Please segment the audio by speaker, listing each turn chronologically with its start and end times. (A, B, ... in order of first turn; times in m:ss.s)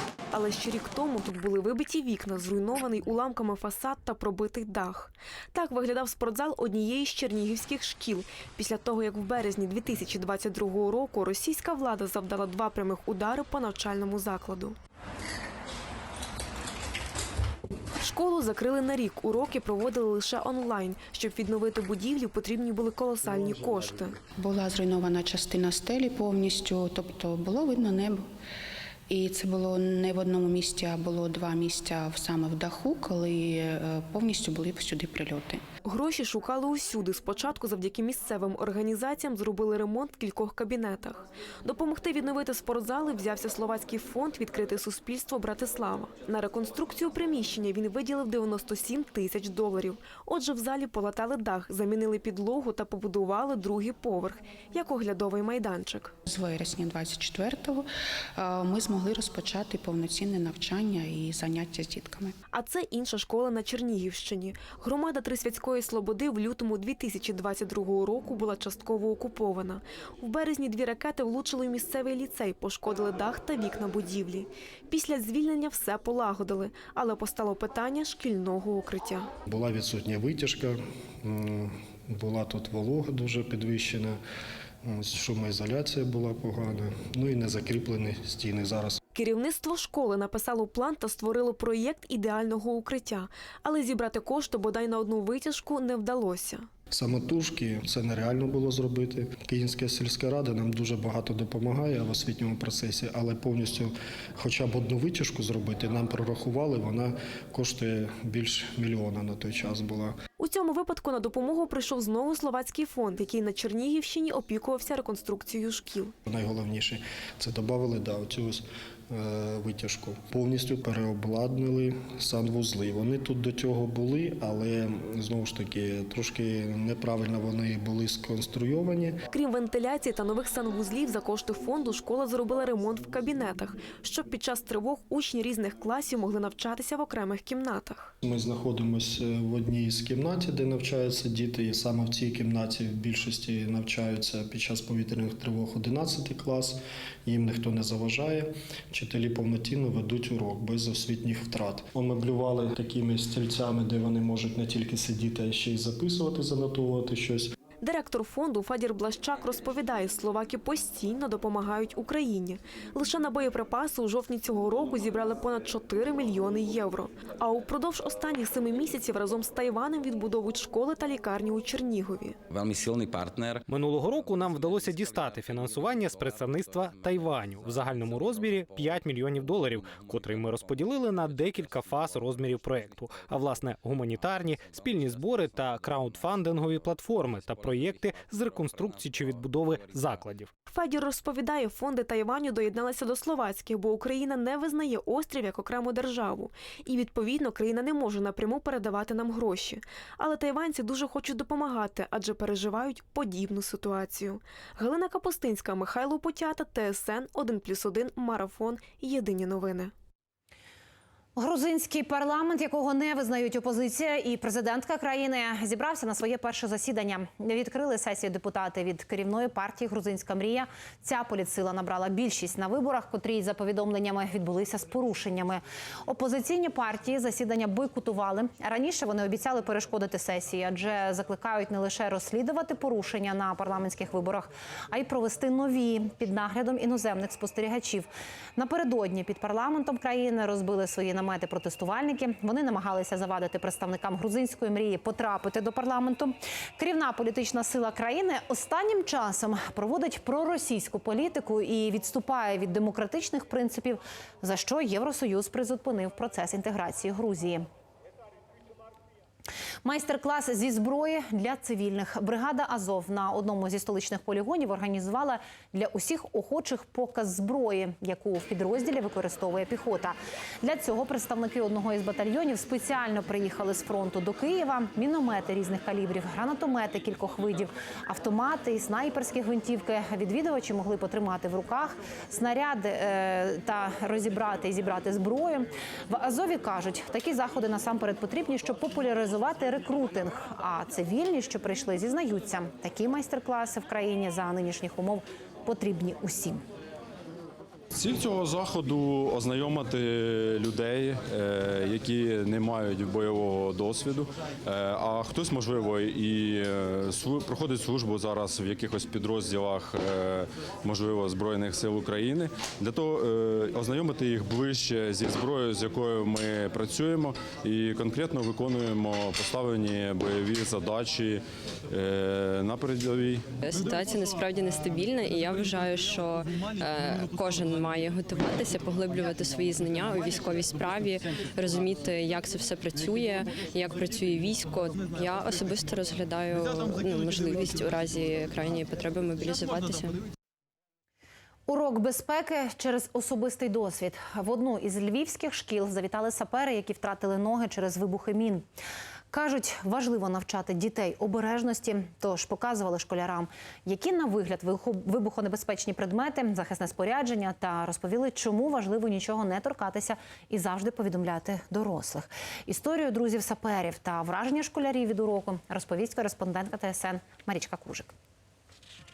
0:00.3-0:14.8 A
0:18.0-0:24.2 A
0:24.3-0:28.3 B
0:29.1-0:35.6 B
0:35.8-0:56.1 A
0:56.2-1:02.4 B
1:02.5-1:19.3 A
1:19.5-1:24.2 C
1:24.8-1:29.0 C
1:29.1-1:36.7 A
1:36.9-1:50.1 C
1:50.4-1:56.1 A
1:56.2-2:09.2 C
2:09.3-2:18.1 A
2:18.2-2:37.5 C
2:37.8-2:52.4 A
2:53.7-3:10.5 D
3:10.7-3:29.9 A
3:31.4-4:17.7 E
4:19.8-4:56.6 E
4:57.9-5:23.4 F
5:23.6-5:40.2 G
5:41.7-5:48.6 E
5:49.3-6:08.1 E